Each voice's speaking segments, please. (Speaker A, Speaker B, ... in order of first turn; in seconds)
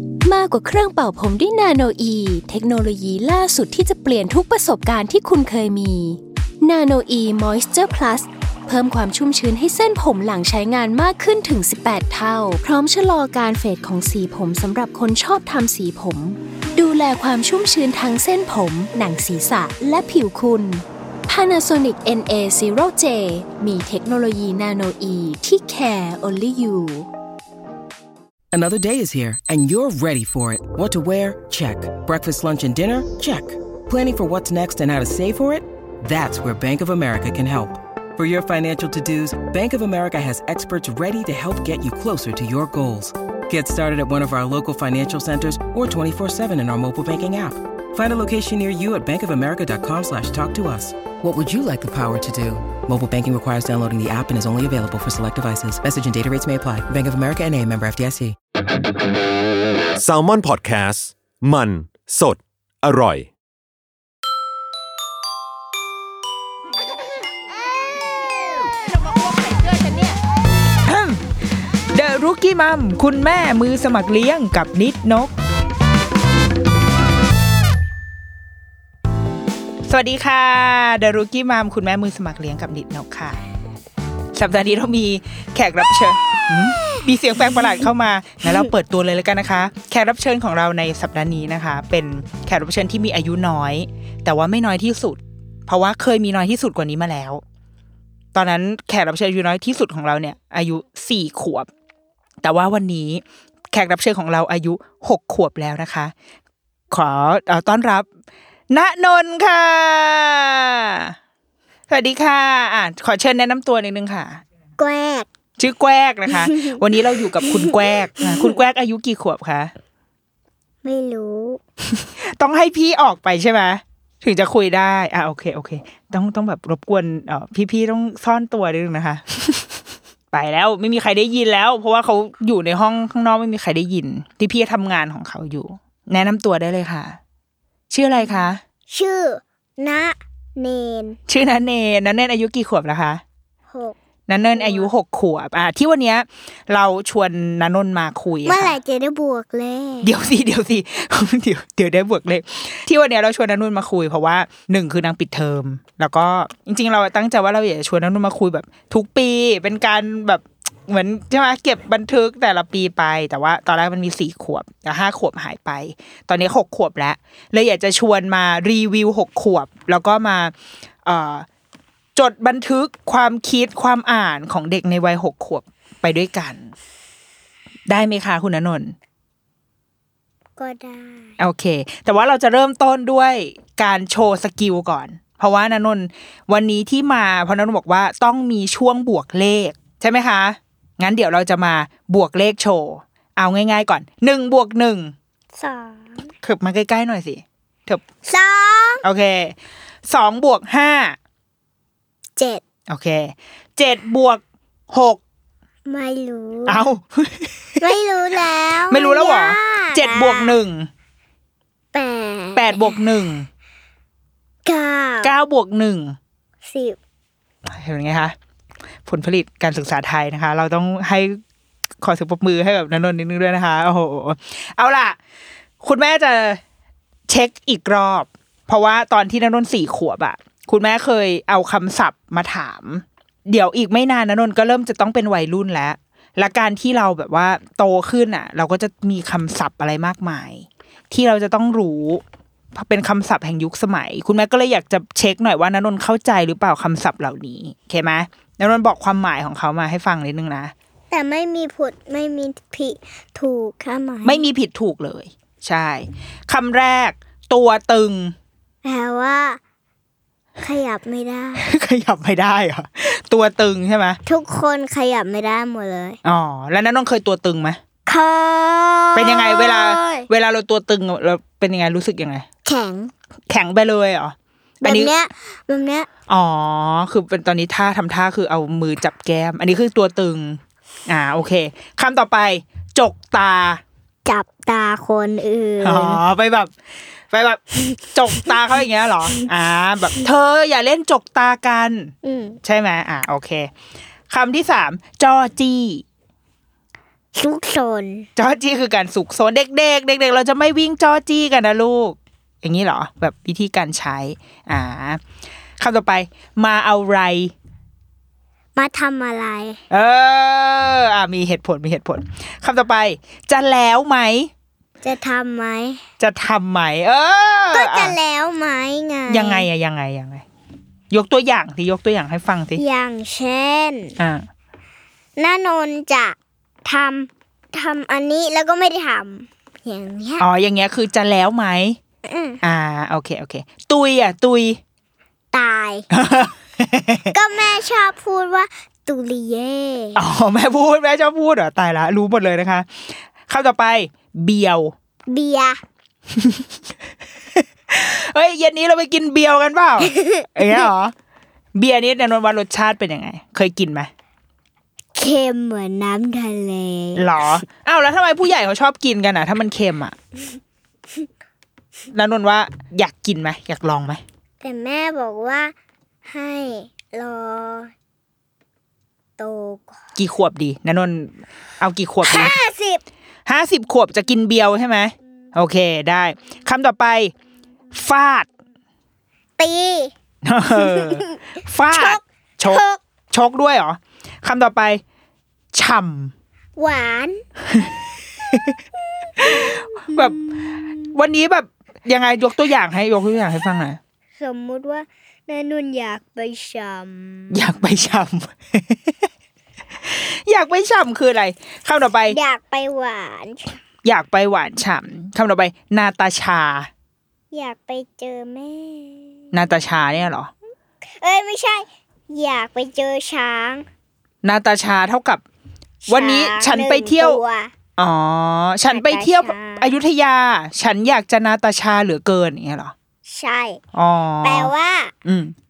Speaker A: 0.2-27.1
Speaker B: 28.5-58.4
Speaker C: 60.0-63.3
Speaker D: 70.8-71.2, 71.9-75.3, 79.9-83.4, 84.3-97.4, 98.3-101.7, 102.4-106.1, 106.9-108.1, 108.7-111.1, 111.9-114.4, 115.6-119.7, 121.9-129.8, 130.3-137.2, 137.9-138.6, 141.3-143.2, 144.3-148.8, 150.0-170.5, 171.1-171.5, 172.2-176.7, 177.9-179.0, 181.4-195.2, 196.4-198.0, 199.0-199.6, 200.1-201.2, 202.9-205.2, 206.7-207.9, 208.9-210.9, 212.6-213.5, 215.2-216.2, 217.7-218.3, 219.1-221.4, 222.0-225.2, 225.8-226.6, 227.3-242.2, 242.7-250.7, 254.2-258.4, 261.6-264.2, 266.2-267.8, 269.1-272.5, 273.5-275.1, 276.3-283.8, 285.8-286.7, 287.3-293.7, 294.3-296.1, 298.4-305.2, 305.8-307.5, 309.9-314.5, 316.2-318.2, 319.3-320.4, 321.1-322.8, 324.2-324.5, 330.4-332.0, 332.6-334.8, 336.1-337.3, 340.1-344.9, 346.3-346.7, 347.5-351.1, 351.8-354.1, 357.2-360.2, 362.1-364.2, 370.2-372.6, 373.5-377.3, 377.9-378.5, 380.4-385.0, 385.7-386.3, 388.5-388.8, 389.4-394.0, 397.5-399.1, 400.0-402.4, 404.0-406.9, 409.5-410.5, 414.4-415.4, 416.1-417.4, 418.0-422.9, 423.9-424.7, 425.2-425.6
Speaker E: 114.8-115.3, 116.3-116.8, 120.8-121.6, 138.9-141.2, 143.7-144.9, 148.5-150.1, 180.6-181.4, 195.6-196.3, 198.3-199.1, 202.4-202.6, 205.9-206.9, 207.8-210.6, 211.9-213.0, 214.7-215.3, 216.7-217.0, 251.1-254.4, 258.8-259.6, 260.6-261.7, 264.3-266.2, 268.1-270.3, 272.6-273.1, 274.8-276.1, 284.3-286.2, 292.2-292.6, 297.4-298.3, 308.8-309.8, 315.0-316.0, 317.7-319.7, 322.8-324.2, 325.4-330.4, 332.2-332.6, 335.5-336.1, 337.3-340.2, 345.3-345.8, 350.0-350.8, 355.2-357.2, 364.6-365.7, 366.2-367.9, 369.4-370.0, 372.2-373.0, 379.6-380.1, 380.7-381.4, 381.9-383.0, 386.8-387.4, 389.2-390.9, 394.4-397.6, 402.3-403.8, 407.5-409.4, 411.2-413.9, 416.1-417.7, 418.9-419.9, 423.3-423.8, 424.4-425.1